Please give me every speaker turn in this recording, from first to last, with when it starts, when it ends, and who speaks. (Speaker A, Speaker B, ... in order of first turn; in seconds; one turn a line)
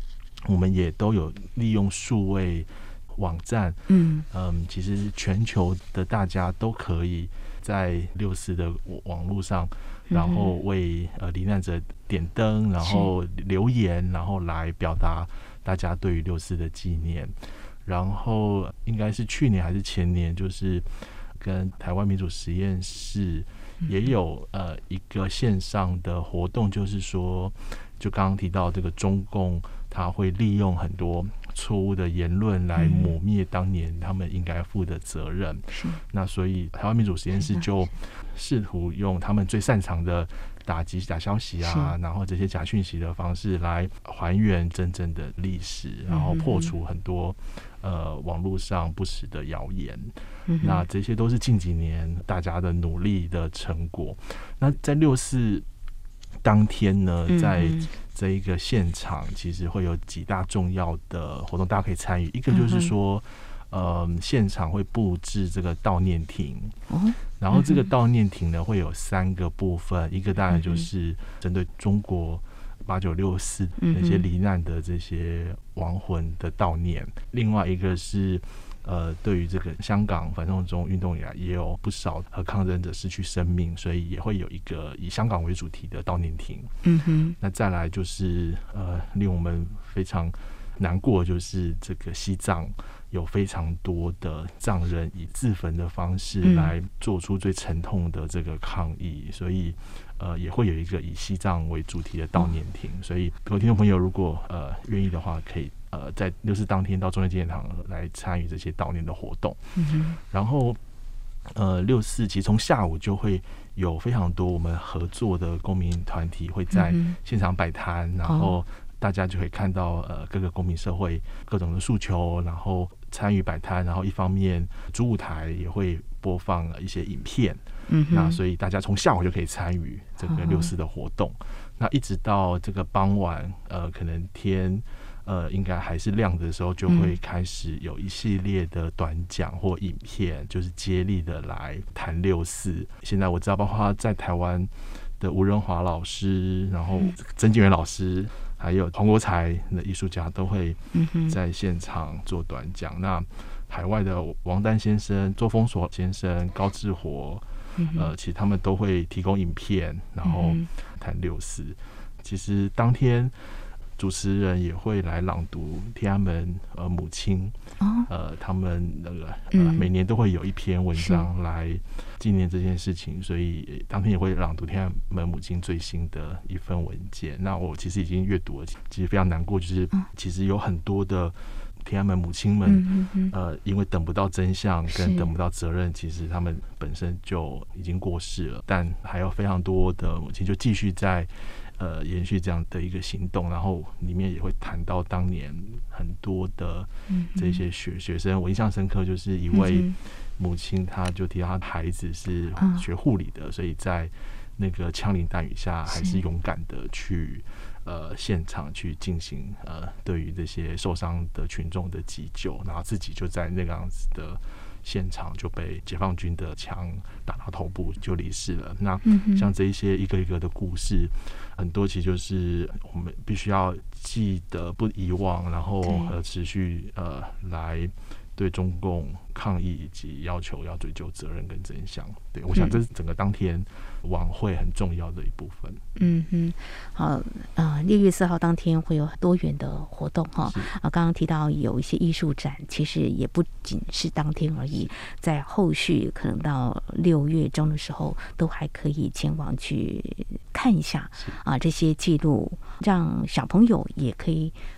Speaker A: 0.4-55.6
Speaker B: 3.9-4.2
Speaker B: 10.1-10.5
Speaker B: 12.8-13.1
Speaker B: 32.8-33.1
Speaker B: 35.7-36.0
Speaker B: 41.6-41.9
Speaker B: 46.1-46.7
Speaker B: 50.5-50.8
Speaker A: 56.4-66.8
Speaker B: 57.3-57.9
Speaker B: 62.5-62.9
Speaker B: 66.9-67.8
Speaker A: 67.4-86.7
Speaker B: 70.5-70.8
Speaker B: 73.8-74.2
Speaker B: 86.8-87.3
Speaker A: 87.4-109.6
Speaker B: 96.4-96.7
Speaker B: 109.8-110.2
Speaker A: 110.3-110.8
Speaker A: 111.5-163.3
Speaker B: 116.7-117.2
Speaker B: 118.2-118.5
Speaker B: 127.9-128.4
Speaker B: 130.2-130.7
Speaker B: 136.9-137.2
Speaker B: 150.9-151.3
Speaker B: 157.8-158.1
Speaker B: 160.2-160.6
Speaker A: 164.0-167.5
Speaker B: 167.8-168.1
Speaker A: 168.1-235.8
Speaker B: 169.5-169.8
Speaker B: 170.9-171.2
Speaker B: 182.7-183.3
Speaker B: 184.9-185.3
Speaker B: 197.1-197.6
Speaker B: 199.5-199.9
Speaker B: 202.6-202.8
Speaker B: 205.9-206.2
Speaker B: 219.0-219.5
Speaker B: 225.8-226.1
Speaker B: 236.0-254.6
Speaker A: 240.4-240.7